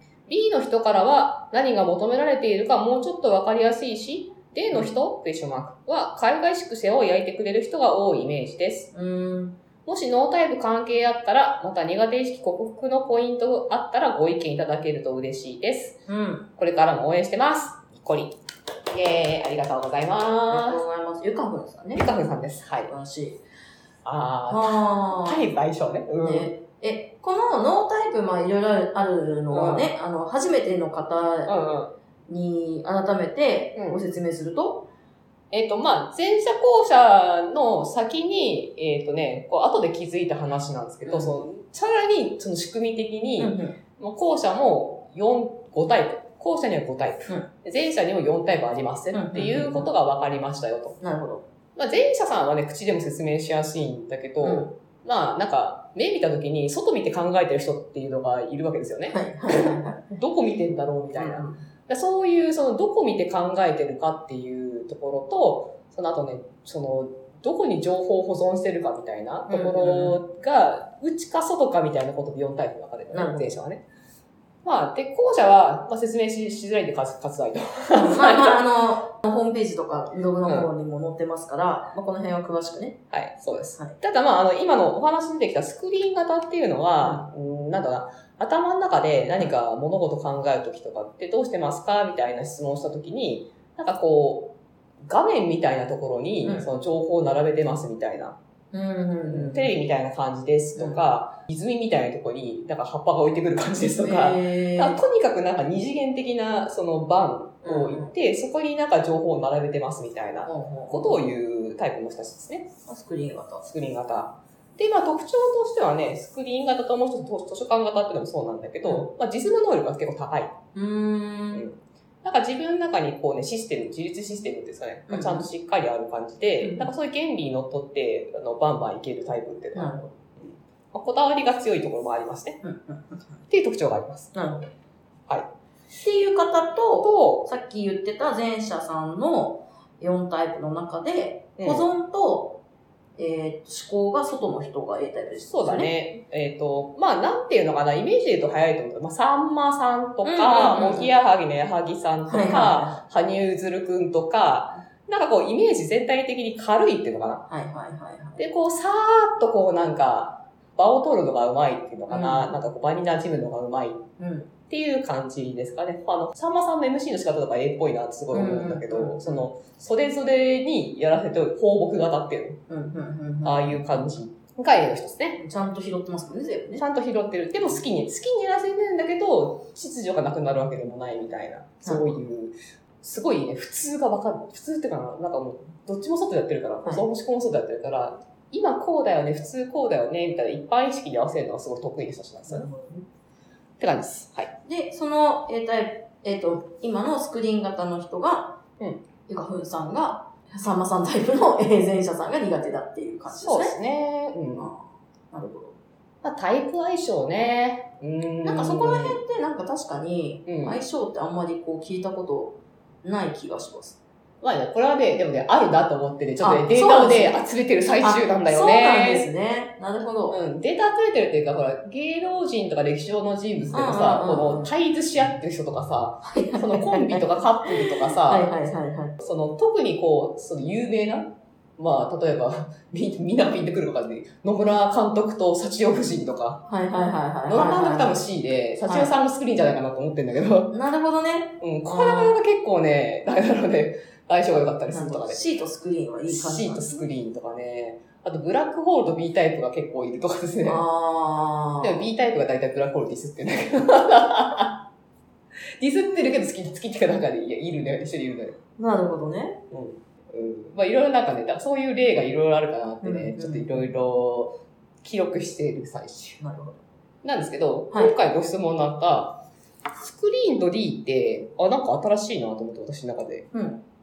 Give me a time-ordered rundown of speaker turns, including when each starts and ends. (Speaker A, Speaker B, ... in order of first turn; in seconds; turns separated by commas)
Speaker A: 0.3-8.9, Speaker B: 8.9-9.6, Speaker A: 9.8-16.0, Speaker B: 16.1-16.5, Speaker A: 16.6-18.3, Speaker A: 18.9-20.8, Speaker B: 20.5-22.1, Speaker A: 21.9-22.9, Speaker B: 22.9-23.4, Speaker A: 24.0-26.5, Speaker B: 24.5-25.4, Speaker B: 26.2-31.5, Speaker A: 29.5-29.9, Speaker A: 31.5-31.9, Speaker B: 32.3-34.9, Speaker A: 35.5-51.0, Speaker B: 41.0-41.3, Speaker B: 43.4-43.8, Speaker B: 49.1-49.9, Speaker B: 51.0-51.4, Speaker A: 51.8-73.8, Speaker B: 54.4-54.7, Speaker B: 59.1-60.0, Speaker B: 61.1-61.6, Speaker B: 69.5-70.2, Speaker B: 73.1-73.5, Speaker A: 74.6-78.6, Speaker B: 77.9-83.0, Speaker A: 80.4-80.7, Speaker A: 83.1-94.5, Speaker A: 95.0-98.3, Speaker B: 96.4-96.7, Speaker B: 98.7-99.7, Speaker A: 99.2-112.7, Speaker B: 100.8-101.0, Speaker B: 104.0-105.0, Speaker B: 107.6-108.1, Speaker B: 110.4-111.2, Speaker B: 112.9-113.7, Speaker A: 113.6-120.5, Speaker B: 120.7-121.7, Speaker A: 121.5-132.6, Speaker B: 125.1-125.5, Speaker B: 126.6-126.9, Speaker B: 129.7-130.1, Speaker B: 132.6-133.4, Speaker A: 133.5-134.3, Speaker B: 134.3-134.7, Speaker B: 136.0-142.6, Speaker A: 137.0-137.5, Speaker A: 141.6-141.8, Speaker B: 143.2-145.9, Speaker A: 145.4-157.4, Speaker B: 150.2-151.1, Speaker B: 152.3-153.0, Speaker B: 157.5-158.4, Speaker A: 158.4-164.0, Speaker B: 162.1-162.5, Speaker B: 164.2-164.5, Speaker A: 164.7-172.6, Speaker B: 168.3-169.5, Speaker B: 172.7-173.8, Speaker A: 173.4-175.4, Speaker B: 175.4-176.8, Speaker A: 176.8-192.7, Speaker B: 181.8-182.2, Speaker B: 192.5-193.0, Speaker A: 193.8-194.5, Speaker B: 194.6-198.6, Speaker B: 199.3-203.8, Speaker A: 203.3-204.7, Speaker B: 204.5-205.8, Speaker A: 206.2-209.2, Speaker B: 208.4-214.0, Speaker A: 210.4-210.8, Speaker A: 214.4-219.3, Speaker B: 216.4-217.4, Speaker B: 218.0-220.4, Speaker A: 220.3-228.5, Speaker B: 223.7-224.7, Speaker B: 226.2-229.2, Speaker A: 229.2-236.6, Speaker B: 236.7-238.2, Speaker A: 237.5-240.7, Speaker B: 238.8-239.1, Speaker B: 240.7-242.4, Speaker A: 241.6-245.4, Speaker B: 244.9-247.0, Speaker A: 246.3-250.8, Speaker B: 250.6-252.0, Speaker A: 251.8-254.8, Speaker A: 255.8-258.6, Speaker B: 258.8-259.6, Speaker A: 259.7-266.4, Speaker B: 263.0-263.9, Speaker B: 266.4-266.8, Speaker A: 267.2-269.4, Speaker A: 270.0-273.5, Speaker B: 273.5-273.8